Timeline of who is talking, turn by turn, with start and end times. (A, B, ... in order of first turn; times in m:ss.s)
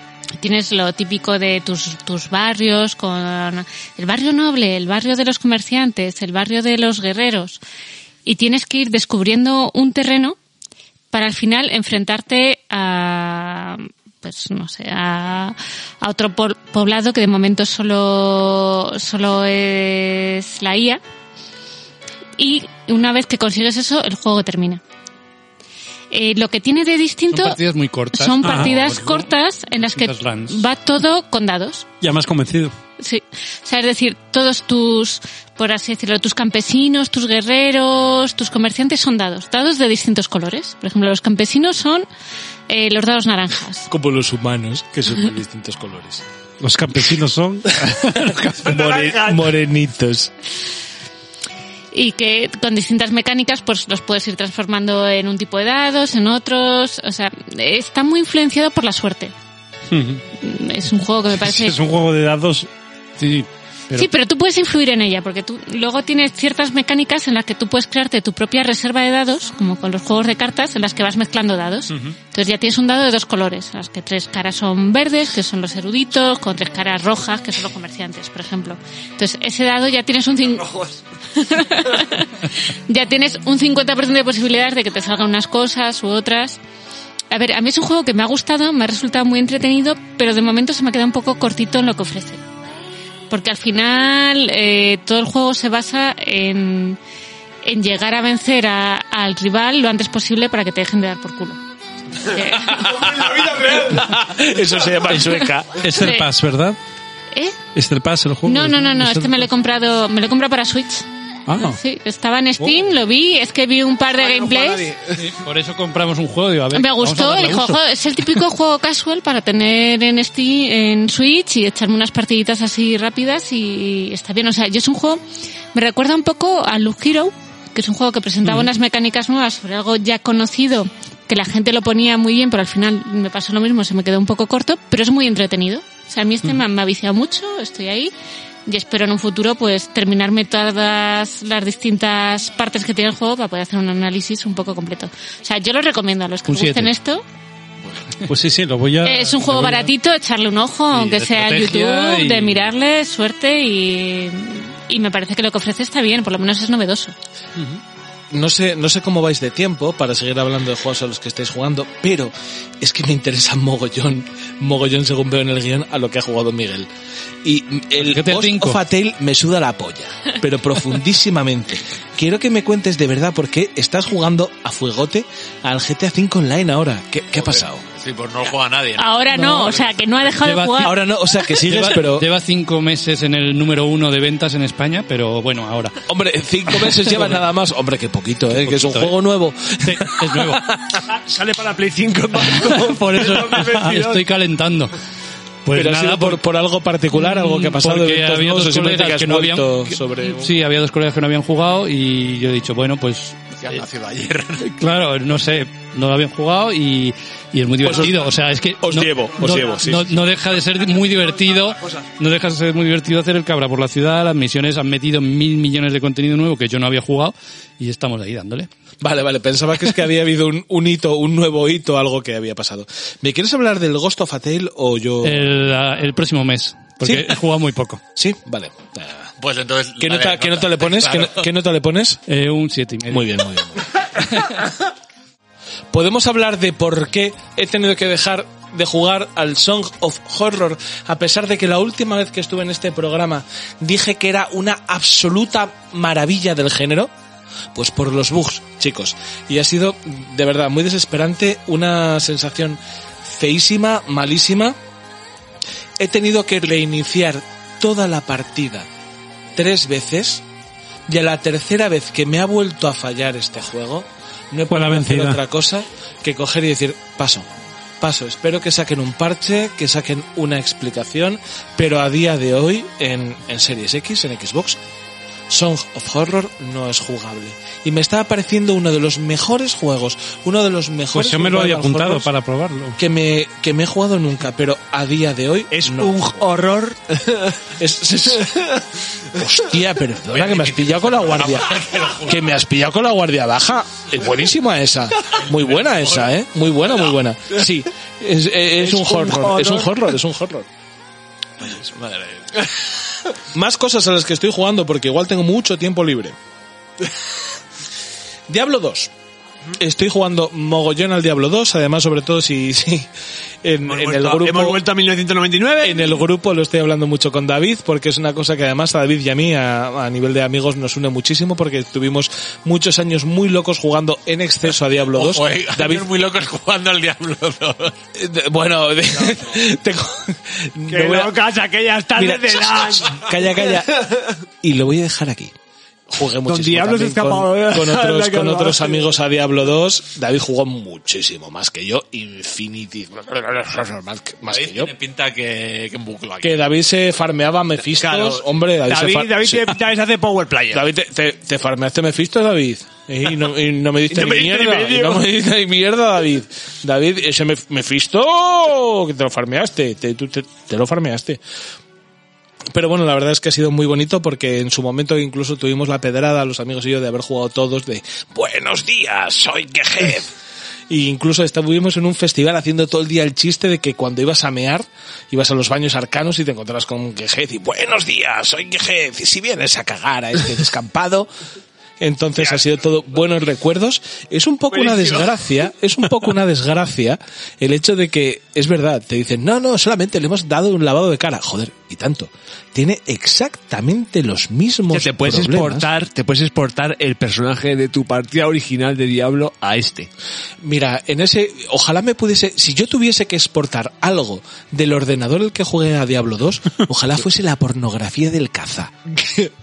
0:00.4-0:07.6 A
0:08.2-0:10.4 A
0:11.1-0:21.0 A
0:22.4-0:24.8 A
0:26.1-0:27.6 A
0:27.3-0:30.6 B
0:28.1-0:31.8 A
0:28.4-0:28.7 C
0:32.0-0:32.7 C
0:33.0-0:42.0 A
0:42.7-0:43.9 A
0:43.9-0:46.2 D
0:46.6-0:48.3 C
0:48.6-0:50.3 D
0:48.6-0:49.5 E
0:51.9-0:59.3 A
0:59.9-1:00.2 C
1:00.4-1:01.8 A
1:01.3-1:02.7 C
1:03.2-1:04.1 B
1:03.9-1:26.6 A
1:27.3-1:32.4 A
1:33.3-1:37.0 A
1:37.6-1:41.6 A
1:42.2-1:43.1 A
1:42.7-1:45.8 D
1:45.8-1:46.8 C
1:45.9-1:46.3 A
1:47.7-1:49.4 C
1:48.4-1:54.9 A
1:51.5-1:51.8 C
1:55.1-1:57.8 B
1:56.7-2:05.2 A
2:05.7-2:18.1 A
2:18.6-2:27.2 A
2:26.5-2:26.9 B
2:28.2-2:29.9 C
2:29.0-2:37.1 A
2:30.9-2:32.7 B
2:38.3-2:46.9 D
2:47.4-2:57.8 D
2:48.0-2:48.8 B
2:57.3-2:59.2 F
2:59.0-3:00.9 A
2:59.3-2:59.8 B
3:00.4-3:06.0 B
3:00.8-3:02.3 D
3:06.1-3:10.5 D
3:06.8-3:07.4 B
3:08.5-3:09.1 B
3:09.8-3:10.8 B
3:11.1-3:14.2 E
3:12.5-3:14.9 B
3:15.6-3:16.4 B
3:15.7-3:20.5 D
3:17.1-3:23.8 B
3:23.6-3:24.7 F
3:24.6-3:38.7 B
3:27.8-3:28.2 D
3:28.8-3:30.2 D
3:39.0-3:45.6 D
3:45.2-3:48.0 B
3:47.0-3:47.4 D
3:48.2-3:49.3 D
3:49.4-3:51.4 F
3:50.0-3:52.2 D
3:52.3-3:53.3 B
3:53.1-3:53.8 D
3:55.9-4:07.1 D
4:07.7-4:14.8 D
4:16.0-4:18.9 D
4:19.6-4:20.4 D
4:21.1-4:27.5 D
4:24.7-4:25.4 C
4:28.0-4:34.8 D
4:35.5-4:42.3 D
4:41.1-4:43.0 C
4:43.0-4:46.4 D
4:45.7-4:47.5 E
4:47.8-4:48.8 D
4:49.3-5:00.6 D
4:50.3-4:52.4 F
4:55.5-4:56.2 F
4:58.8-5:00.1 E
5:01.6-5:02.2 D
5:03.5-5:06.4 D
5:08.5-5:09.1 D
5:09.8-5:13.1 D
5:13.6-5:14.8 D
5:13.8-5:16.2 E
5:15.8-5:26.1 D
5:25.1-5:28.0 F
5:28.2-5:31.3 D
5:30.9-5:34.3 E
5:32.2-5:34.0 D
5:34.6-5:35.5 D
5:36.1-5:44.9 D
5:36.4-5:39.1 E
5:44.4-5:46.7 F
5:46.4-5:49.8 D
5:47.9-5:50.9 E
5:50.7-6:01.4 D
5:54.1-5:55.3 E
6:02.7-6:10.3 D
6:10.9-6:21.3 D
6:22.0-6:35.9 D
6:24.7-6:25.3 E
6:34.9-6:40.1 E
6:40.6-6:49.5 D